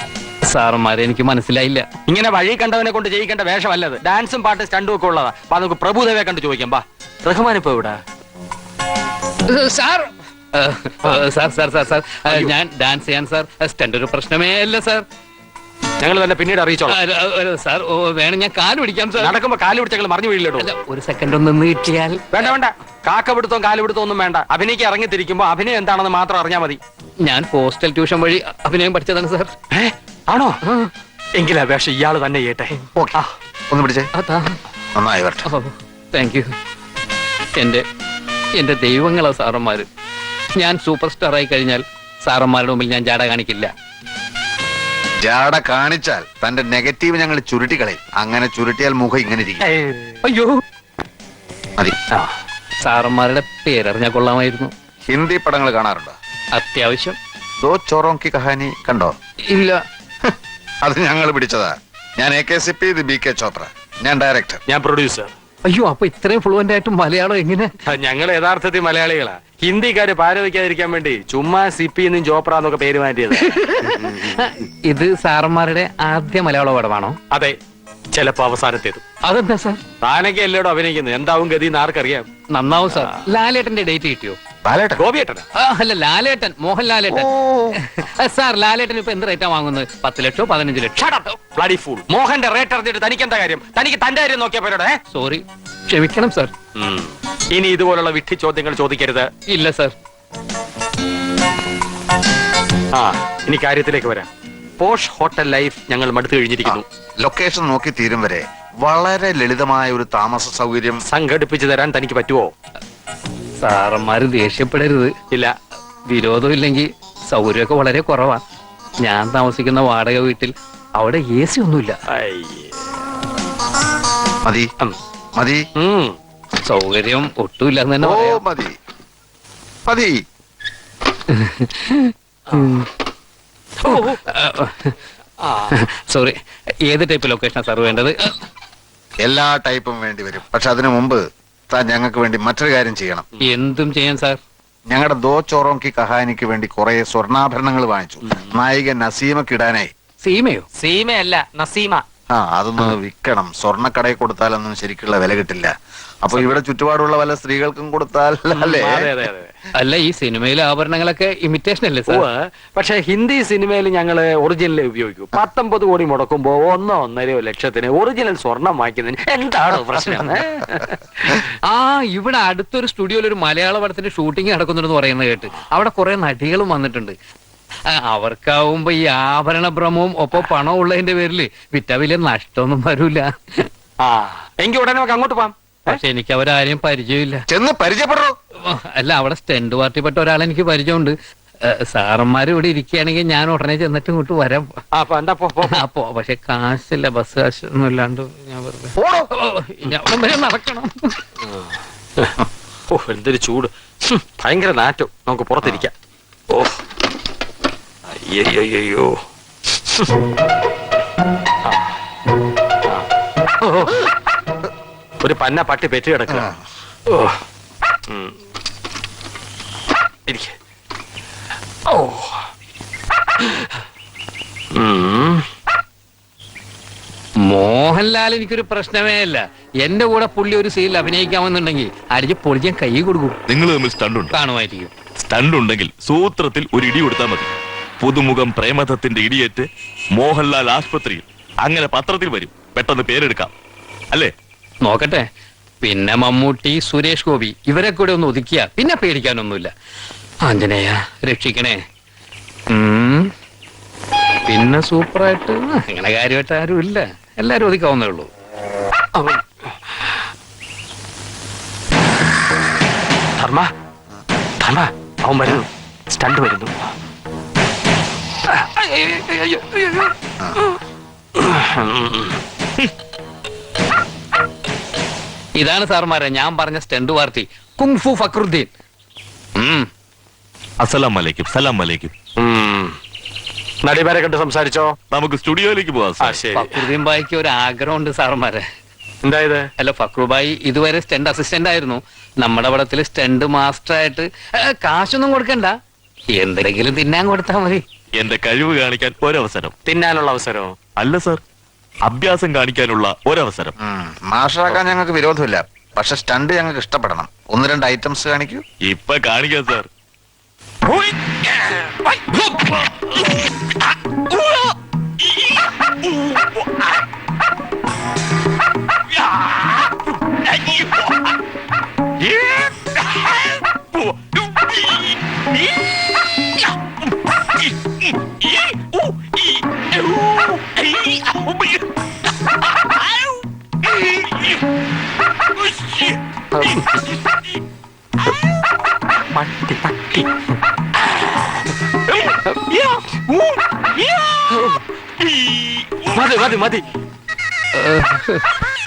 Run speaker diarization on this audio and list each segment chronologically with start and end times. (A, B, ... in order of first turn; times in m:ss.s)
0:00.5-0:01.8 A
0:02.1-0:08.0 B
0:09.5-0:15.0 A
0:16.0-0:17.0 B
0:16.9-0:19.3 A
0:19.2-0:20.7 B
0:20.6-0:22.4 A
0:22.3-0:26.8 B
0:27.2-0:29.5 A
0:29.7-0:30.6 B
0:31.4-0:33.3 B
0:33.7-0:34.1 C
0:34.2-0:34.6 A
0:35.0-0:35.5 C
0:35.5-0:36.5 A
0:37.6-0:37.8 A
0:38.6-0:39.9 A
0:40.6-0:43.7 A
0:45.2-0:49.7 C
0:49.6-0:50.2 B
0:50.2-0:50.6 A
0:52.8-0:54.7 A
0:55.1-0:56.1 C
0:56.6-0:57.2 A
0:57.6-0:59.1 C
0:59.5-0:59.8 A
1:00.8-1:04.6 C
1:04.7-1:05.3 B
1:05.7-1:07.7 A
1:07.9-1:14.3 B
1:13.5-1:17.2 A
1:18.1-1:19.0 B
1:19.2-1:19.8 A
1:20.0-1:22.3 B
1:22.5-1:24.4 A
1:24.7-1:25.0 C
1:25.0-1:25.4 B
1:25.6-1:27.3 A
1:27.1-1:27.8 C
1:27.9-1:31.3 A
1:31.5-1:35.0 B
1:35.1-1:36.5 A
1:36.8-1:39.3 B
1:39.5-1:39.9 A
1:43.0-1:46.8 B
1:46.6-1:51.0 C
1:51.1-1:52.5 B
1:53.6-1:55.1 A
1:56.1-1:58.4 A
1:59.0-2:02.0 A
2:02.2-2:02.7 B
2:05.4-2:05.6 C
2:05.8-2:06.1 B
2:06.6-2:08.4 A
2:08.0-2:08.8 C
2:09.9-2:10.2 C
2:11.3-2:12.9 A
2:13.8-2:14.2 B
2:13.9-2:14.9 A
2:16.1-2:16.4 A
2:16.9-2:18.3 A
2:19.2-2:23.3 C
2:23.4-2:24.4 A
2:24.9-2:29.9 C
2:30.2-2:30.6 A
2:30.8-2:32.0 B
2:32.3-2:35.7 C
2:36.2-2:39.1 C
2:36.3-2:36.6 B
2:38.6-2:39.5 B
2:39.8-2:42.2 A
2:42.1-2:50.9 B
2:51.7-2:57.2 A
2:57.9-3:03.6 A
3:04.0-3:06.0 B
3:05.9-3:07.4 A
3:07.5-3:08.3 C
3:08.7-3:14.7 A
3:15.0-3:15.8 B
3:15.8-3:21.2 A
3:19.0-3:19.3 C
3:21.4-3:22.4 B
3:22.9-3:25.9 B
3:28.2-3:29.2 B
3:33.6-3:34.1 B
3:35.2-3:36.5 B
3:36.3-3:36.6 C
3:38.1-3:38.3 B
3:40.3-3:40.5 B
3:41.9-3:42.4 B
3:44.8-3:45.4 B
3:47.4-3:53.4 A
3:53.5-3:54.4 D
3:54.3-3:54.9 A
3:55.3-4:03.5 D
4:04.8-4:05.2 A
4:05.8-4:09.7 A
4:10.5-4:11.8 A
4:12.7-4:13.3 A
4:14.5-4:18.3 A
4:19.2-4:19.4 B
4:23.4-4:23.7 B
4:24.6-4:26.9 B
4:28.6-4:30.1 B
4:31.4-4:32.4 B
4:35.6-4:38.7 A
4:39.6-4:39.9 A
4:40.8-4:42.1 D
4:42.4-4:42.9 B
4:43.8-4:44.9 B
4:45.1-4:46.4 D
4:46.2-4:46.7 B
4:46.5-4:48.6 A
4:49.2-4:49.7 B
4:49.8-4:55.7 A
4:56.4-4:57.8 A
4:58.2-4:59.7 D
4:59.9-5:00.7 B
5:01.0-5:01.4 D
5:02.1-5:03.7 D
5:03.8-5:08.6 C
5:08.8-5:09.9 D
5:23.8-5:25.0 D
5:36.6-5:37.0 B
5:39.3-5:40.3 B
5:41.1-5:41.5 B
5:42.1-5:43.2 B
5:44.5-5:44.8 B
5:45.4-5:46.8 B
5:47.8-5:48.4 A